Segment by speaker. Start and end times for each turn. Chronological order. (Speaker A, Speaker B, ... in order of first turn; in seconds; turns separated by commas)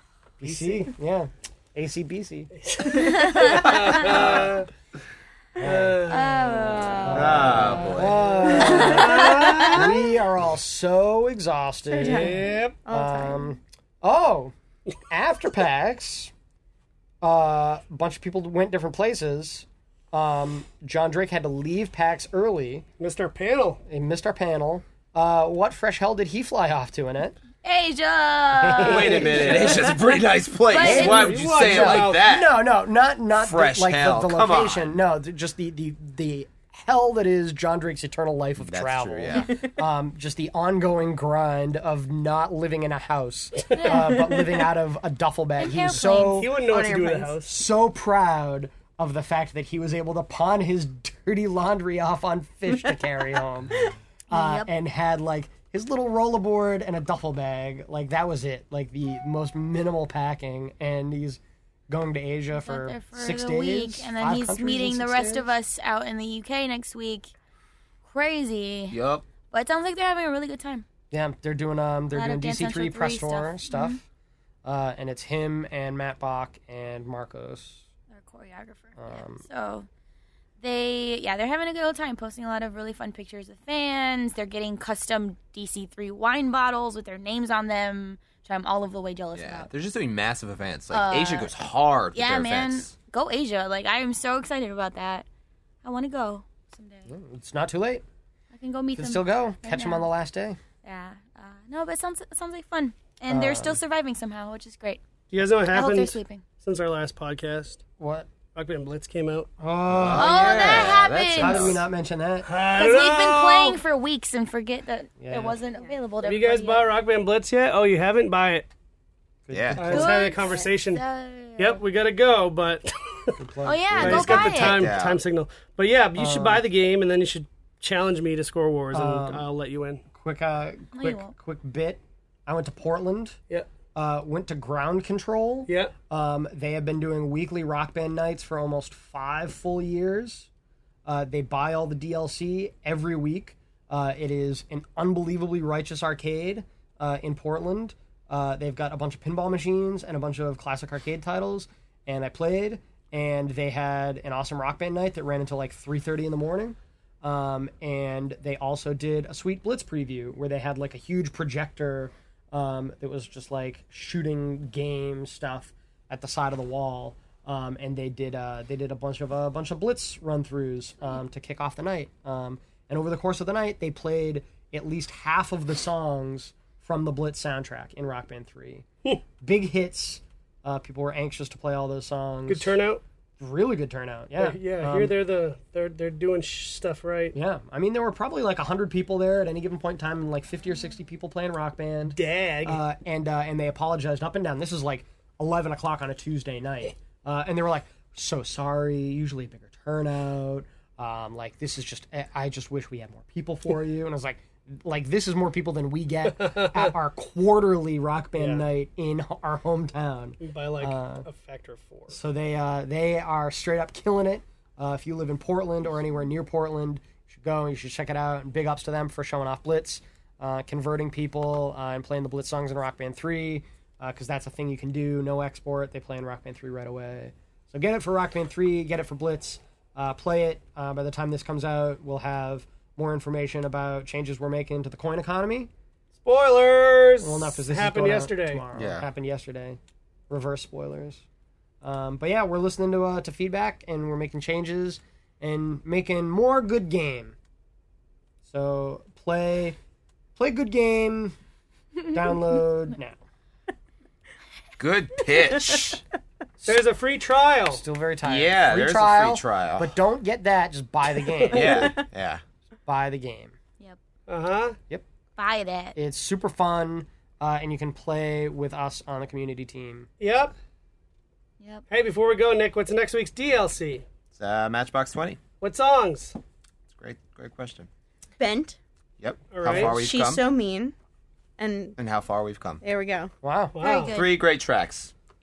Speaker A: 0.4-2.5, Speaker B: 0.4-0.9, Speaker B: 2.5-4.7, Speaker C: 2.8-3.8, Speaker D: 2.9-4.0, Speaker E: 3.9-4.5, Speaker A: 5.6-6.1, Speaker B: 5.6-6.5, Speaker D: 6.0-7.5, Speaker C: 6.7-7.1, Speaker A: 7.0-14.5, Speaker E: 7.1-8.4, Speaker B: 8.0-9.9, Speaker C: 8.4-9.9, Speaker C: 11.9-13.5, Speaker B: 12.0-12.8, Speaker A: 15.1-16.3, Speaker A: 17.2-22.9, Speaker B: 23.0-23.8, Speaker A: 23.9-27.4, Speaker D: 27.6-29.3, Speaker A: 28.6-29.9, Speaker E: 28.8-32.5, Speaker B: 29.0-30.0, Speaker D: 30.6-31.3, Speaker A: 30.8-46.6, Speaker B: 30.9-32.2, Speaker E: 33.4-34.9, Speaker E: 38.6-39.5, Speaker B: 43.7-44.5, Speaker D: 43.8-44.1, Speaker D: 45.6-46.4, Speaker B: 46.0-47.6, Speaker C: 46.6-47.4, Speaker A: 47.5-65.5, Speaker D: 54.3-54.7, Speaker D: 62.5-67.3, Speaker D: 68.0-69.0, Speaker E: 68.9-69.2, Speaker D: 69.5-70.8, Speaker A: 71.1-74.0, Speaker D: 72.1-74.0, Speaker A: 74.6-77.8, Speaker D: 78.1-79.9, Speaker A: 79.0-79.4, Speaker D: 80.6-89.7, Speaker E: 89.3-92.9, Speaker D: 90.9-91.5, Speaker D: 92.1-95.2, Speaker D: 95.8-97.1, Speaker A: 97.1-98.0, Speaker D: 98.5-100.1, Speaker A: 99.0-100.6, Speaker D: 100.8-105.0, Speaker A: 103.3-103.8, Speaker B: 105.3-107.8, Speaker D: 105.7-106.4, Speaker A: 108.0-108.3, Speaker B: 108.5-109.5, Speaker A: 109.6-112.5, Speaker E: 109.9-111.8, Speaker D: 110.1-111.8, Speaker B: 112.4-113.8, Speaker D: 112.7-116.9, Speaker A: 115.2-115.6, Speaker B: 116.2-118.7, Speaker A: 119.5-120.1, Speaker E: 119.5-119.9, Speaker B: 119.8-121.0, Speaker D: 119.9-121.8, Speaker C: 120.4-120.7, Speaker B: 121.6-123.4, Speaker A: 123.4-124.5, Speaker D: 123.6-124.9, Speaker B: 124.0-130.0, Speaker E: 124.4-125.2, Speaker A: 126.2-126.6, Speaker A: 128.9-129.5, Speaker A: 130.1-133.4, Speaker D: 130.9-131.3, Speaker A: 133.9-140.5, Speaker B: 135.7-135.9, Speaker A: 141.1-178.8, Speaker A: 179.4-182.8, Speaker B: 182.5-183.0, Speaker A: 183.4-185.2, Speaker B: 184.4-187.3, Speaker A: 187.3-211.2, Speaker B: 192.1-192.8, Speaker B: 206.4-206.9, Speaker B: 208.4-208.6, Speaker B: 210.4-212.2, Speaker A: 212.1-235.7, Speaker B: 236.2-238.6, Speaker A: 237.2-239.8, Speaker E: 238.7-239.1, Speaker A: 240.3-241.2, Speaker A: 241.8-247.3, Speaker A: 248.4-249.8, Speaker A: 250.4-251.3, Speaker A: 252.1-253.2, Speaker E: 254.8-256.0, Speaker C: 255.3-255.9, Speaker B: 256.6-257.8, Speaker A: 257.7-262.0, Speaker E: 258.2-259.9, Speaker C: 261.4-262.0, Speaker E: 261.5-262.4, Speaker A: 262.9-263.6, Speaker B: 264.3-264.8, Speaker D: 265.4-266.0, Speaker A: 265.9-270.1, Speaker B: 270.2-270.5, Speaker B: 271.9-274.0, Speaker E: 274.3-275.4, Speaker B: 275.6-276.4, Speaker E: 276.9-277.9, Speaker C: 278.4-278.8, Speaker E: 279.2-280.4, Speaker B: 279.5-280.0, Speaker C: 279.7-280.9, Speaker C: 281.6-282.0, Speaker E: 282.0-282.8, Speaker C: 282.8-283.3, Speaker A: 283.4-283.7, Speaker B: 283.7-284.1, Speaker D: 283.8-284.4, Speaker E: 284.1-285.1